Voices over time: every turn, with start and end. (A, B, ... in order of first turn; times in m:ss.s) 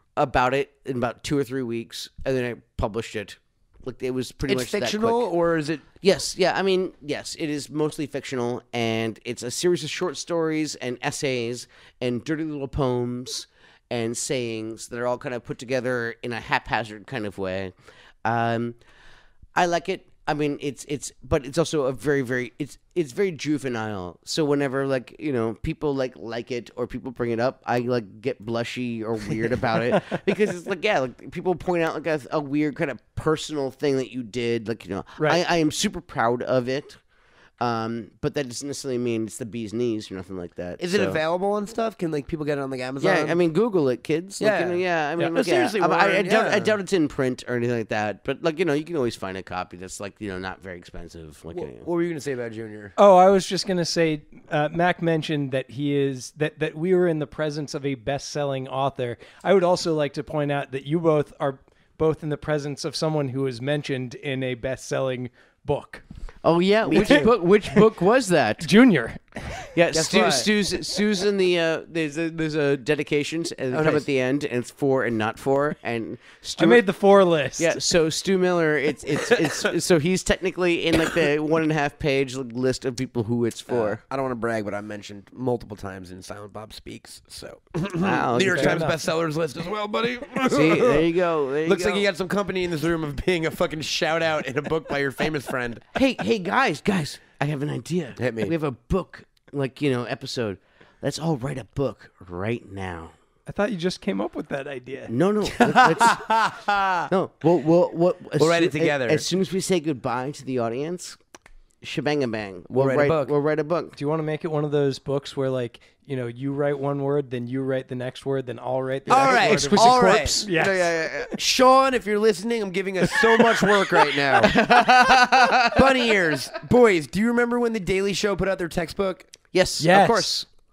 0:00.2-0:05.3 A
0:04.5-0:05.8 B
0:06.0-0:18.8 A
0:19.5-0:37.0 A
0:37.6-0:41.2 A
0:40.8-0:43.4 B
0:43.0-0:51.8 A
0:44.4-0:46.7 B
0:51.5-0:52.9 B
0:53.0-1:06.0 C
1:06.4-1:08.7 A
1:06.9-1:07.3 B
1:06.9-1:07.3 C
1:08.6-1:09.7 C
1:09.6-1:16.8 A
1:09.9-1:10.5 B
1:13.7-1:14.0 B
1:16.6-1:17.8 C
1:17.6-1:24.0 A
1:23.7-1:35.8 B
1:28.0-1:28.8 A
1:28.5-1:29.0 C
1:30.5-1:32.0 A
1:35.9-1:43.1 A
1:38.2-1:38.5 B
1:43.5-1:45.1 C
1:45.1-1:46.3 A
1:45.5-1:47.1 B
1:47.1-1:51.2 A
1:48.4-1:49.2 B
1:51.8-1:54.0 A
1:52.7-1:53.3 B
1:54.0-2:01.3 C
1:59.1-2:00.4 B
1:59.1-2:01.3 A
2:01.3-2:09.3 B
2:03.6-2:06.1 A
2:09.5-2:10.5 A
2:09.8-2:10.4 C